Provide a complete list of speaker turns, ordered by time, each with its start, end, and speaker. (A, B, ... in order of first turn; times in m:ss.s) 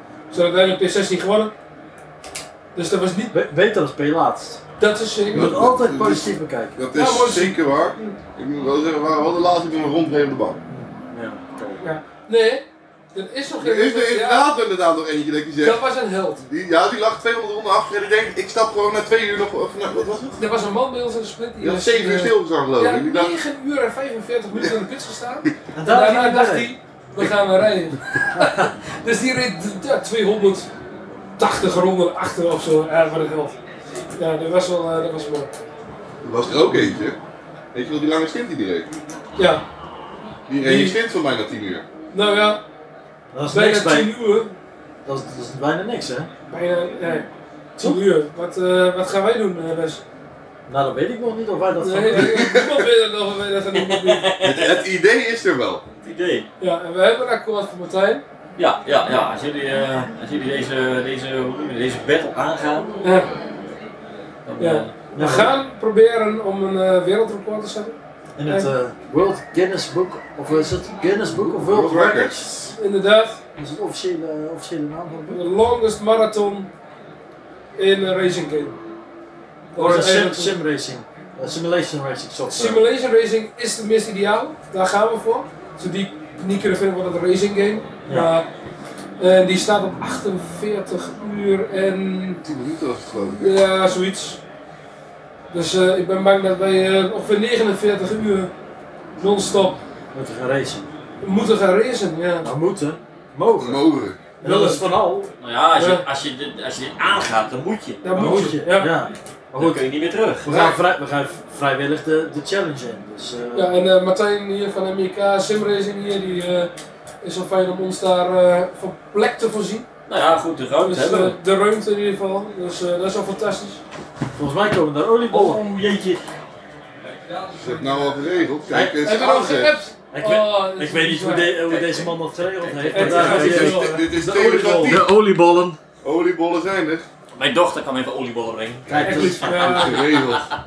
0:00.3-0:01.5 A
0:02.8-0:03.4 A
0:03.3-0:04.6 B
0:04.8-0:05.5 A
0:05.3-0:06.8 B
0:05.3-0:10.6 C
0:06.9-0:08.2 A
0:10.7-0:11.8 B
0:11.8-0:14.5 A
0:13.6-0:15.8 C
0:15.6-0:16.4 A
0:16.4-0:20.4 C
0:20.4-0:30.7 A
0:21.6-0:23.4 C
0:25.8-0:26.7 B
0:28.4-0:28.6 B
0:31.4-0:33.6 A
0:34.2-0:35.5 A
0:36.2-0:37.2 C
0:37.7-0:38.9 C
0:39.4-0:39.6 A
0:40.5-0:41.8 C
0:40.6-0:41.0 A
0:42.1-0:42.6 A
0:43.3-0:44.1 B
0:43.5-0:44.5 A
0:45.0-0:46.3 B
0:46.5-0:47.3 A
0:47.8-0:48.0 B
0:47.8-0:50.0 A
0:50.7-0:52.4 B
0:51.8-0:54.3 A
0:52.2-0:52.8 C
0:53.9-0:54.8 D
0:54.4-0:55.8 C
0:56.0-0:56.4 D
0:56.6-0:58.2 A
0:58.6-1:02.9 D
1:03.0-1:03.3 A
1:04.5-1:04.9 D
1:04.6-1:08.7 A
1:05.2-1:05.5 B
1:08.4-1:12.5 B
1:11.6-1:12.7 C
1:12.8-1:13.4 A
1:13.6-1:15.4 B
1:15.3-1:16.7 A
1:17.8-1:18.8 A
1:19.7-1:20.6 A
1:19.8-1:22.8 B
1:22.5-1:28.5 A
1:28.1-1:28.3 B
1:29.2-1:32.4 A
1:32.4-1:33.6 C
1:33.4-1:34.4 A
1:35.5-1:38.5 A
1:39.2-1:39.8 A
1:40.1-1:40.8 B
1:41.2-1:42.5 A
1:42.4-1:43.8 B
1:43.6-1:44.2 C
1:44.4-1:45.3 B
1:44.4-1:44.8 A
1:45.4-1:48.0 D
1:45.7-1:46.0 A
1:48.0-1:48.9 A
1:48.1-1:49.8 B
1:49.6-1:50.6 D
1:50.4-1:53.7 B
1:53.6-1:56.7 A
1:57.2-1:59.9 A
2:00.1-2:01.4 D
2:00.9-2:03.8 A
2:04.4-2:05.6 B
2:05.4-2:06.2 D
2:07.2-2:08.2 D
2:07.6-2:09.7 C
2:08.7-2:09.0 B
2:09.0-2:11.6 A
2:10.1-2:15.1 B
2:11.7-2:13.7 D
2:12.9-2:14.1 A
2:13.1-2:15.1 C
2:15.1-2:15.4 D
2:16.0-2:17.0 C
2:17.4-2:20.3 D
2:18.9-2:19.7 B
2:18.9-2:20.5 C
2:19.0-2:20.0 A